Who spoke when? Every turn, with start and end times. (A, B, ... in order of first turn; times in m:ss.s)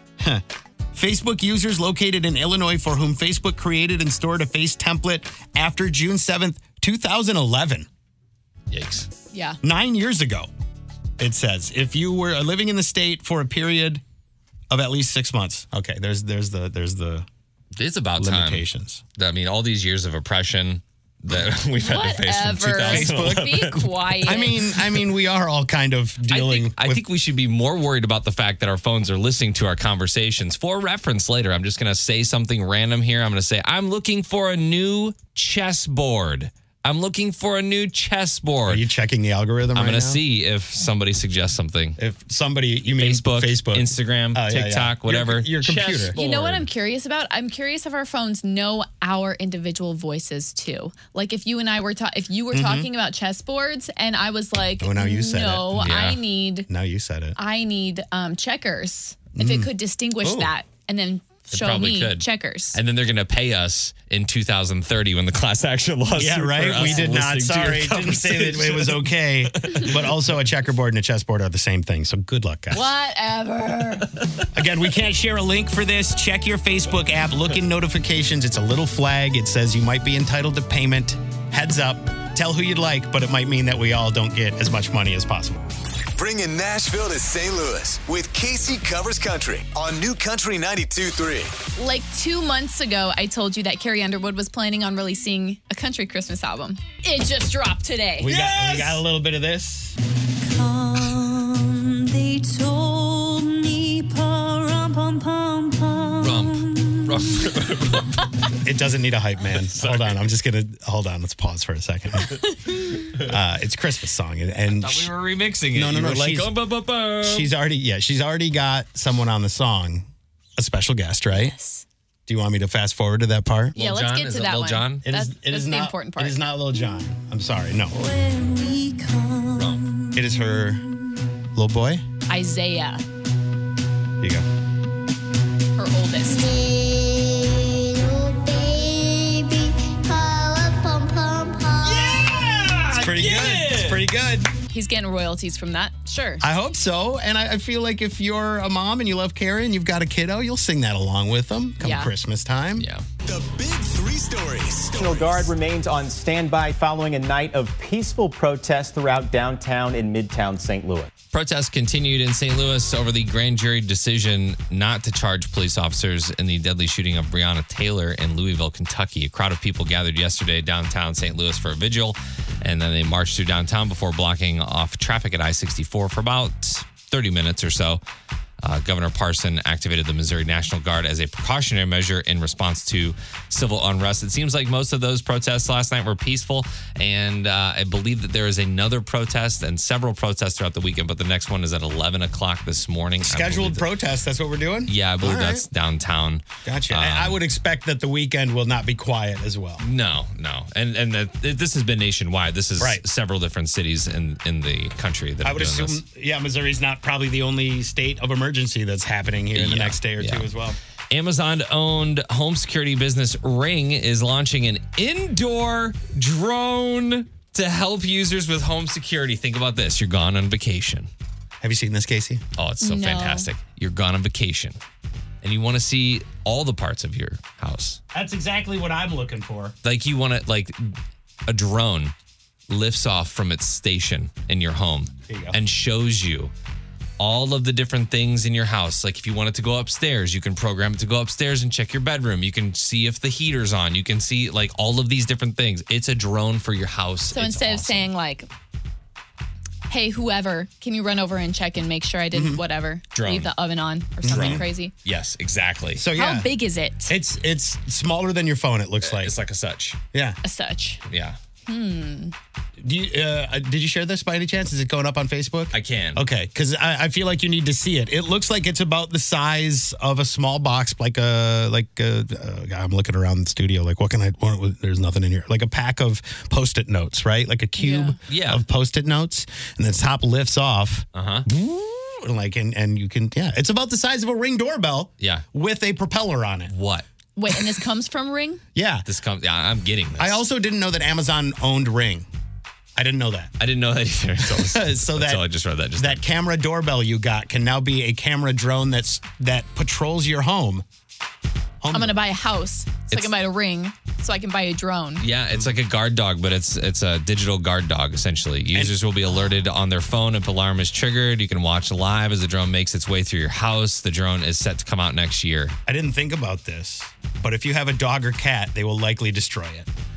0:00.2-0:07.9 A
0:08.7-0:09.1 B
0:09.3-0:09.6 C
0:09.6-0:10.5 A
0:11.2-0:14.0 A
0:14.7-0:17.3 A
0:17.8-0:24.8 B
0:18.2-0:19.0 A
0:21.8-0:24.6 C
0:22.8-0:23.7 A
0:24.2-0:27.0 A
0:26.3-0:38.8 B
0:38.7-0:40.2 A
0:39.7-0:42.0 B
0:42.0-0:46.2 A
0:43.0-0:46.7 B
0:46.1-0:56.7 C
0:52.5-0:52.9 A
0:54.8-0:56.0 A
0:55.8-0:56.2 B
0:56.7-0:57.4 A
0:57.4-1:02.8 C
0:59.3-1:00.5 A
1:01.5-1:10.1 B
1:06.2-1:12.9 A
1:12.7-1:14.1 C
1:14.5-1:25.6 A
1:26.1-1:31.5 D
1:31.8-1:38.3 C
1:38.2-1:40.0 A
1:38.3-1:39.0 B
1:41.7-1:45.9 E
1:46.2-1:48.2 B
1:48.6-1:52.4 A
1:49.5-1:50.2 B
1:53.1-1:55.1 A
1:54.7-1:57.5 B
1:55.7-1:56.5 A
1:57.2-2:01.5 A
2:01.3-2:01.8 C
2:02.3-2:03.7 A
2:03.7-2:05.0 B
2:03.7-2:06.4 C
2:05.0-2:08.0 A
2:08.1-2:10.1 E
2:09.5-2:09.8 B
2:10.1-2:10.8 A
2:11.5-2:12.0 A
2:12.3-2:13.0 C
2:14.2-2:14.4 A
2:15.8-2:16.4 C
2:16.2-2:22.5 E
2:21.8-2:24.1 B
2:22.9-2:24.5 A
2:24.7-2:26.4 C
2:26.4-2:32.9 A
2:31.8-2:32.1 C
2:32.8-2:33.0 B
2:33.2-2:35.5 D
2:34.9-2:41.1 F
2:41.3-2:58.0 B
2:58.6-3:13.8 B
3:13.2-3:15.7 A
3:14.9-3:17.4 B
3:16.6-3:19.8 A
3:19.8-3:26.0 B
3:22.8-3:23.0 A
3:25.4-3:30.8 A
3:29.5-3:30.5 B
3:31.1-3:41.1 B
3:41.6-3:42.4 A
3:42.6-3:44.8 B
3:42.8-3:43.5 C
3:45.4-3:48.0 B
3:48.1-3:49.8 A
3:49.8-3:50.8 B
3:51.5-3:52.1 B
3:52.7-3:56.5 B
3:55.3-3:55.6 A
3:57.2-4:08.1 B
4:07.3-4:08.5 C
4:09.9-4:14.9 C
4:12.3-4:12.6 A
4:13.1-4:13.5 B
4:14.2-4:14.6 A
4:14.3-4:16.0 B
4:16.0-4:16.5 A
4:16.1-4:17.2 C
4:17.1-4:19.3 A
4:19.0-4:20.0 B
4:20.1-4:20.4 A
4:20.4-4:21.0 C
4:21.1-4:21.4 B
4:21.6-4:22.3 C
4:22.8-4:46.7 A
4:25.7-4:26.2 B
4:37.8-4:38.1 C
4:38.3-4:38.6 B
4:41.1-4:41.5 B
4:46.7-4:47.0 B
4:47.4-4:48.6 C
4:48.7-4:49.1 A
4:49.1-4:50.4 B
4:50.2-4:52.3 A
4:53.0-4:53.5 A
4:53.6-4:56.2 B
4:54.4-4:55.4 A
4:56.0-5:00.8 A
5:01.8-5:02.2 A
5:01.9-5:05.2 C
5:05.2-5:15.7 B
5:08.7-5:09.0 A
5:15.9-5:19.9 A